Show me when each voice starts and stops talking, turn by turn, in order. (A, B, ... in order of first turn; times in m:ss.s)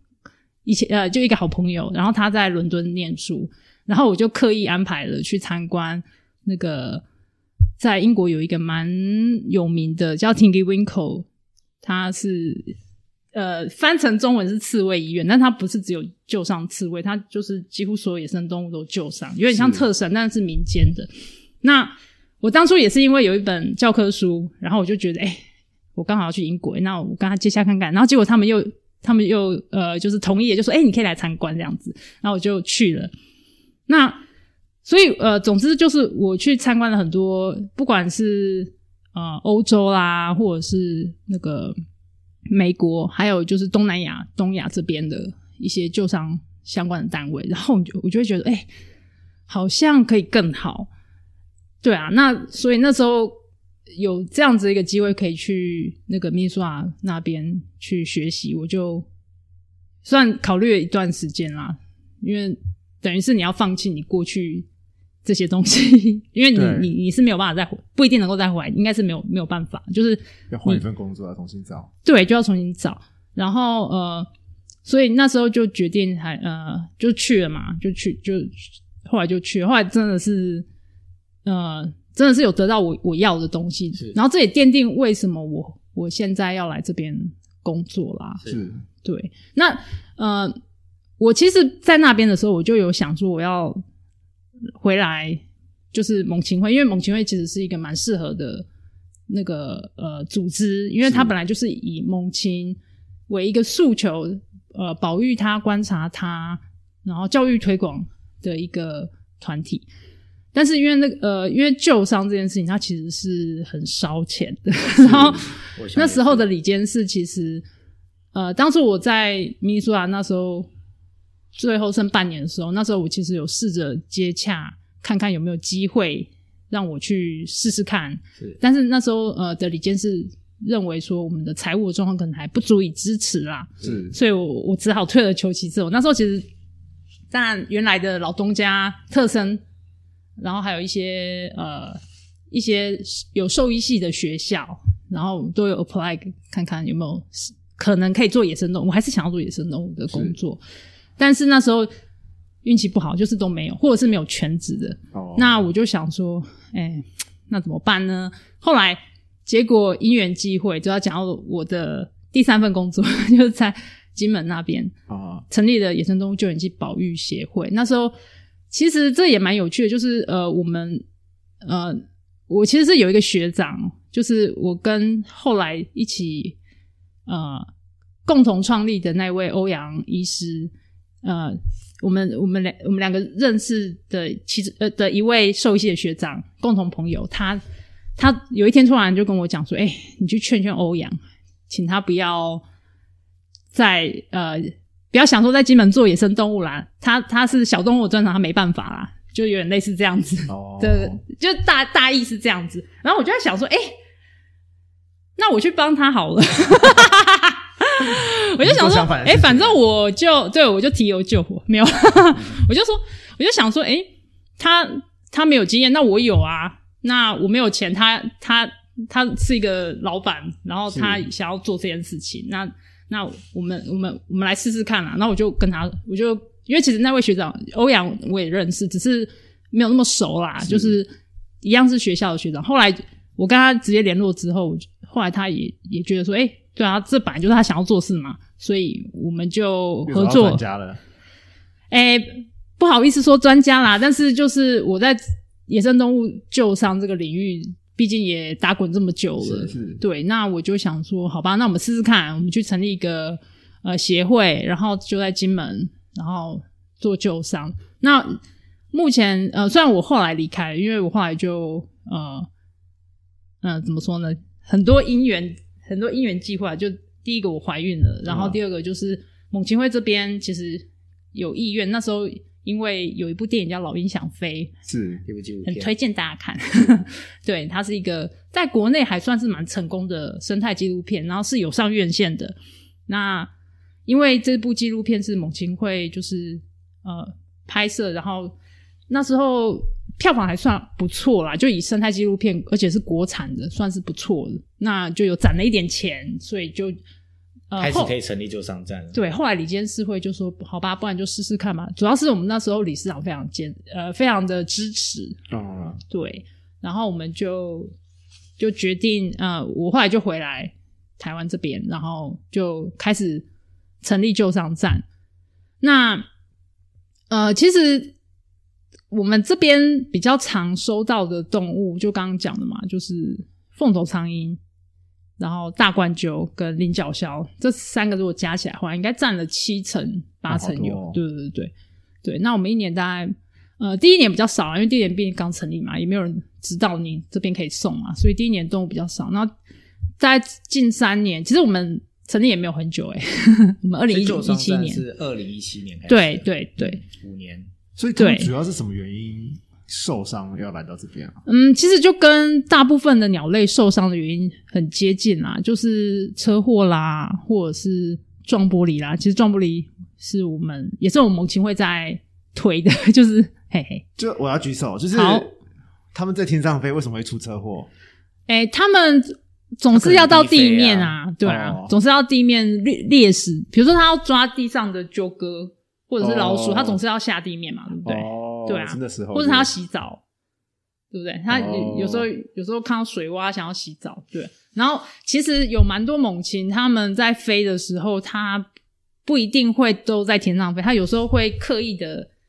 0:00.6-0:07.0 A
0:07.8-0:11.3 A
0:11.8-0:12.7 A
0:13.3-0:21.1 A
0:19.5-0:19.8 B
0:21.6-0:25.4 A
0:25.9-0:33.1 A
0:33.9-0:34.2 A
0:34.8-0:41.8 A
0:42.5-0:48.7 A
0:49.5-0:50.9 A
0:51.8-0:53.3 A
0:53.9-0:59.0 A
1:00.0-1:04.7 A
1:05.2-1:10.8 A
1:06.5-1:06.9 B
1:10.5-1:11.9 B
1:12.0-1:14.3 A
1:14.8-1:20.6 A
1:21.4-1:28.4 A
1:28.4-1:28.8 B
1:29.0-1:30.6 A
1:31.2-1:33.8 A
1:34.8-1:35.4 A
1:35.9-1:38.6 A
1:39.3-1:42.8 A
1:41.0-1:41.3 B
1:43.3-1:49.8 A
1:50.5-1:57.6 A
1:55.0-1:56.4 C
1:58.3-2:00.7 A
2:01.5-2:16.5 A
2:13.8-2:14.1 B
2:17.3-2:19.6 A
2:20.4-2:22.0 A
2:22.5-2:30.6 A
2:30.1-2:30.4 B
2:31.2-2:31.9 A
2:32.6-2:44.9 A
2:35.1-2:35.7 B
2:45.1-2:45.4 B
2:45.5-2:48.1 A
2:48.7-2:51.0 A
2:51.6-2:56.6 A
2:57.3-2:57.7 A
2:58.2-3:00.7 A
3:01.2-3:07.6 A
3:08.2-3:11.2 A
3:11.7-3:12.6 A
3:13.7-3:23.9 A
3:20.5-3:21.2 B
3:25.4-3:51.1 A
3:28.6-3:29.8 B
3:40.9-3:41.2 B
3:50.6-3:50.9 B
3:51.6-4:00.6 A
4:00.0-4:01.0 B
4:01.9-4:18.4 A
4:09.4-4:10.0 B
4:18.9-4:22.5 A
4:23.6-4:34.7 A
4:28.3-4:28.6 B
4:34.9-4:35.2 B
4:35.2-4:35.9 C
4:35.6-4:42.5 A
4:43.1-4:43.5 A
4:44.0-4:48.5 A
4:49.1-4:57.0 A
4:57.7-4:58.1 A
4:57.8-4:59.2 C
4:59.1-5:05.4 A
5:05.5-5:06.0 B
5:06.1-5:07.9 A
5:08.6-5:13.4 A
5:14.0-5:15.0 A
5:15.8-5:16.2 A
5:17.3-5:18.1 A
5:19.1-5:24.6 A
5:25.4-5:31.7 A
5:30.5-5:31.2 B
5:32.2-5:39.5 A
5:40.2-5:45.0 A
5:44.1-5:47.7 C
5:46.1-5:47.0 A
5:48.0-5:51.4 B
5:48.2-5:48.5 A
5:51.4-6:04.0 A
6:04.2-6:05.5 B
6:05.1-6:05.5 A
6:06.1-6:07.9 B
6:08.5-6:20.2 A
6:09.9-6:11.2 C
6:11.4-6:11.9 B
6:16.2-6:17.0 B
6:18.0-6:19.7 B
6:21.1-6:28.7 A
6:21.5-6:22.3 B
6:29.2-6:32.3 A